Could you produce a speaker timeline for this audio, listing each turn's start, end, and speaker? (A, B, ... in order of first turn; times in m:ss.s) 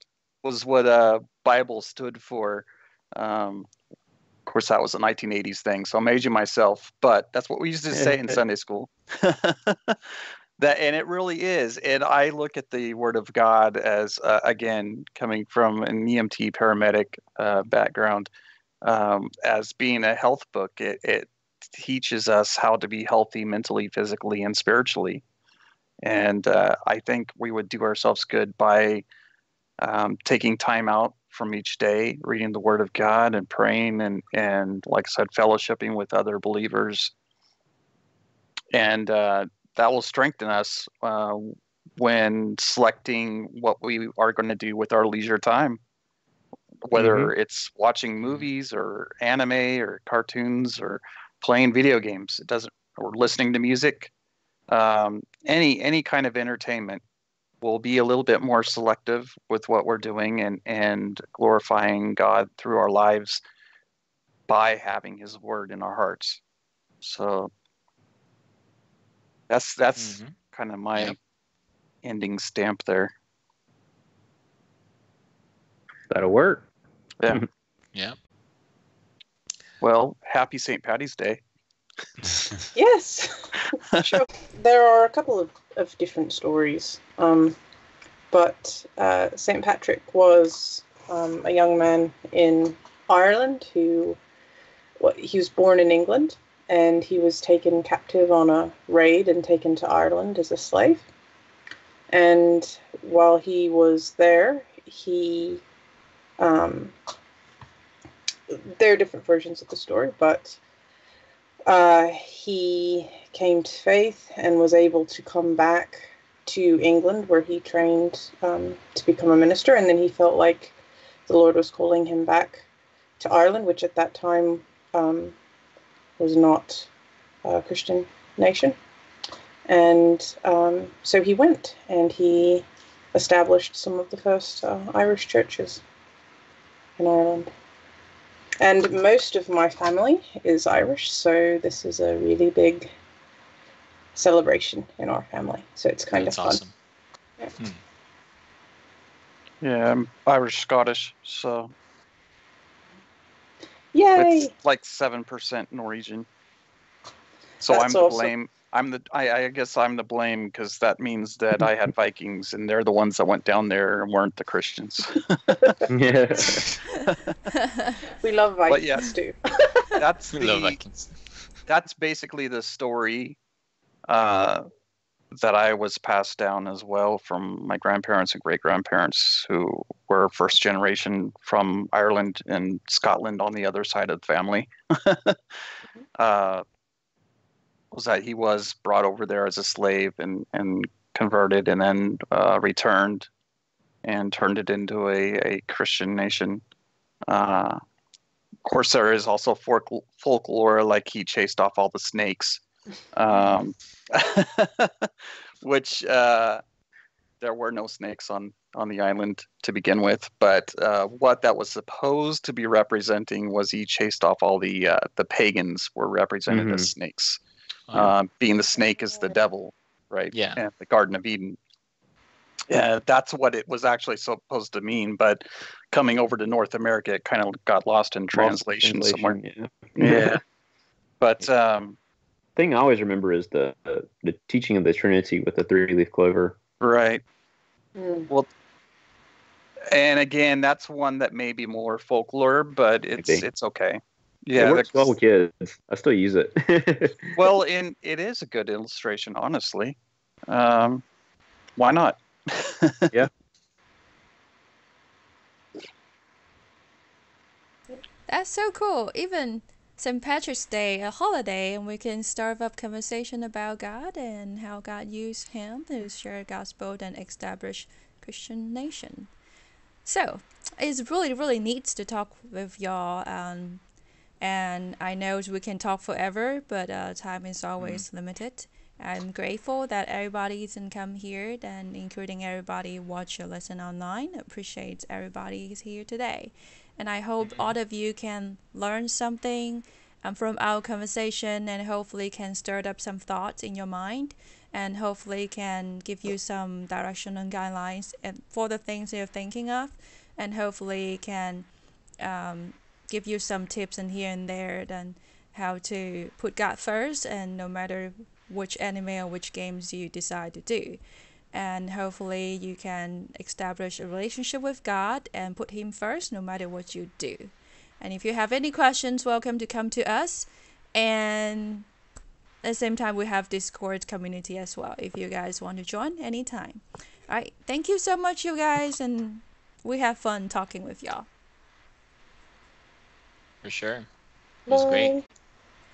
0:00.4-0:03.7 A
0:04.5-0:10.0 A
0:07.9-0:08.4 B
0:10.6-0:18.3 A
0:18.8-0:25.2 A
0:26.0-0:29.0 A
0:29.8-0:37.1 A
0:38.7-0:45.8 A
0:46.8-0:54.1 A
0:46.9-0:47.3 B
0:48.2-0:48.5 C
0:54.7-0:57.0 A
0:57.6-1:03.4 A
1:04.5-1:06.4 A
1:07.0-1:07.5 A
1:09.5-1:11.2 A
1:10.0-1:10.3 C
1:12.0-1:13.1 A
1:16.1-1:16.6 B
1:19.8-1:21.4 A
1:22.7-1:27.6 D
1:23.9-1:24.2 A
1:28.3-1:34.2 D
1:35.0-1:41.0 D
1:42.1-1:45.6 D
1:46.4-1:46.9 D
1:48.5-1:50.6 D
1:51.6-2:00.7 D
2:01.3-2:02.6 D
2:03.2-2:05.4 D
2:06.2-2:06.9 D
2:07.4-2:08.8 D
2:09.7-2:15.8 D
2:17.0-2:17.5 D
2:18.6-2:22.9 D
2:24.1-2:26.6 D
2:26.1-2:26.7 C
2:29.6-2:31.7 A
2:33.9-2:34.5 D
2:34.2-2:36.3 A
2:37.6-2:38.3 D
2:37.6-2:45.7 A
2:45.9-2:46.6 B
2:47.0-2:47.3 A
2:47.5-2:47.9 E
2:48.1-2:50.0 D
2:48.7-2:49.1 A
2:50.0-2:50.8 A
2:50.3-2:51.1 C
2:51.7-2:53.4 A
2:54.1-2:54.6 A
2:55.3-3:05.4 A
3:06.2-3:06.6 A
3:07.9-3:13.3 A
3:14.0-3:16.6 A
3:17.3-3:17.8 A
3:18.6-3:22.6 A
3:23.1-3:25.1 A
3:25.6-3:26.6 A
3:27.4-3:37.4 A
3:36.5-3:36.9 B
3:37.9-3:41.6 A
3:40.3-3:40.6 C
3:42.7-3:49.4 A
3:48.3-3:50.4 B
3:50.0-3:50.4 A
3:51.2-3:52.0 A
3:52.6-3:56.6 B
3:56.8-3:57.2 A
3:58.0-3:58.3 D
3:59.9-4:05.1 A
4:03.2-4:03.4 B
4:04.6-4:07.3 B
4:07.4-4:11.0 A
4:11.8-4:13.1 A
4:18.3-4:29.3 E
4:30.0-4:33.8 E
4:34.4-5:01.7 E
4:37.8-4:38.0 C
4:47.4-4:47.7 C
5:02.2-5:11.0 E
5:11.5-5:21.9 E
5:22.6-5:31.3 E
5:33.6-5:34.1 C
5:34.7-5:35.2 D
5:34.7-5:35.1 C